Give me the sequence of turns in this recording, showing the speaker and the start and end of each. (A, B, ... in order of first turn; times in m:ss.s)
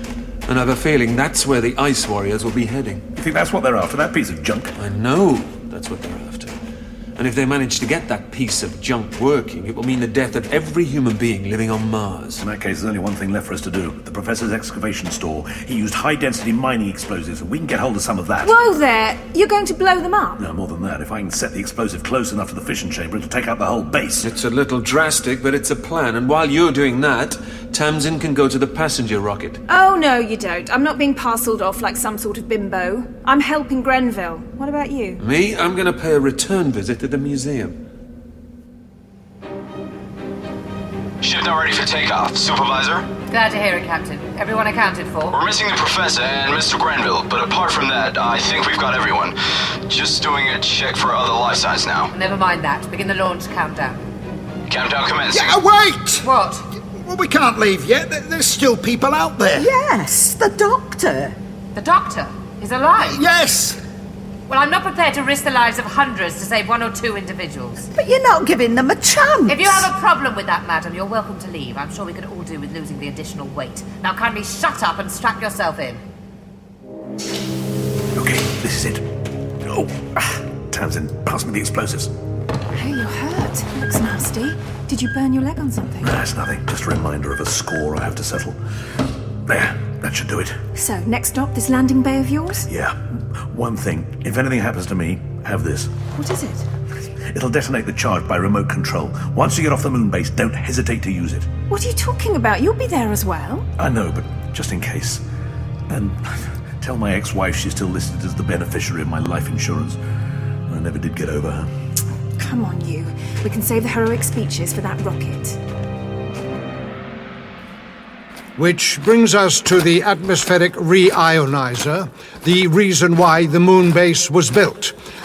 0:00.5-0:03.0 A
0:03.2-0:04.7 B
0:04.8-0:06.6 A
0:07.2-0:12.4 A
0:12.4-0:18.5 B
0:18.4-0:20.4 C
0:20.4-0:24.3 B
0:24.2-0:29.6 A
0:29.7-0:35.2 C
0:35.2-0:37.8 A
0:41.2-0:43.1 D
0:43.3-0:45.4 E
0:45.3-0:49.4 D
0:49.9-0:52.1 D
0:52.1-0:54.0 E
0:54.7-0:55.6 D
0:55.3-0:56.3 F
0:56.2-0:56.6 E
0:56.9-0:59.7 F
0:59.6-1:01.4 G
1:01.8-1:03.2 E
1:03.0-1:03.8 F
1:04.5-1:07.8 E
1:07.9-1:09.9 G
1:09.5-1:16.0 E
1:18.1-1:19.0 B
1:19.6-1:22.1 B
1:22.7-1:26.2 C
1:26.0-1:28.6 B
1:29.5-1:30.6 B
1:30.8-1:32.7 C
1:32.7-1:35.9 B
1:36.2-1:36.7 C
1:37.3-1:41.5 B
1:41.7-1:43.7 C
1:43.8-1:45.2 B
1:45.9-1:50.0 B
1:50.7-1:51.7 B
1:52.4-1:55.6 C
1:58.6-2:05.0 H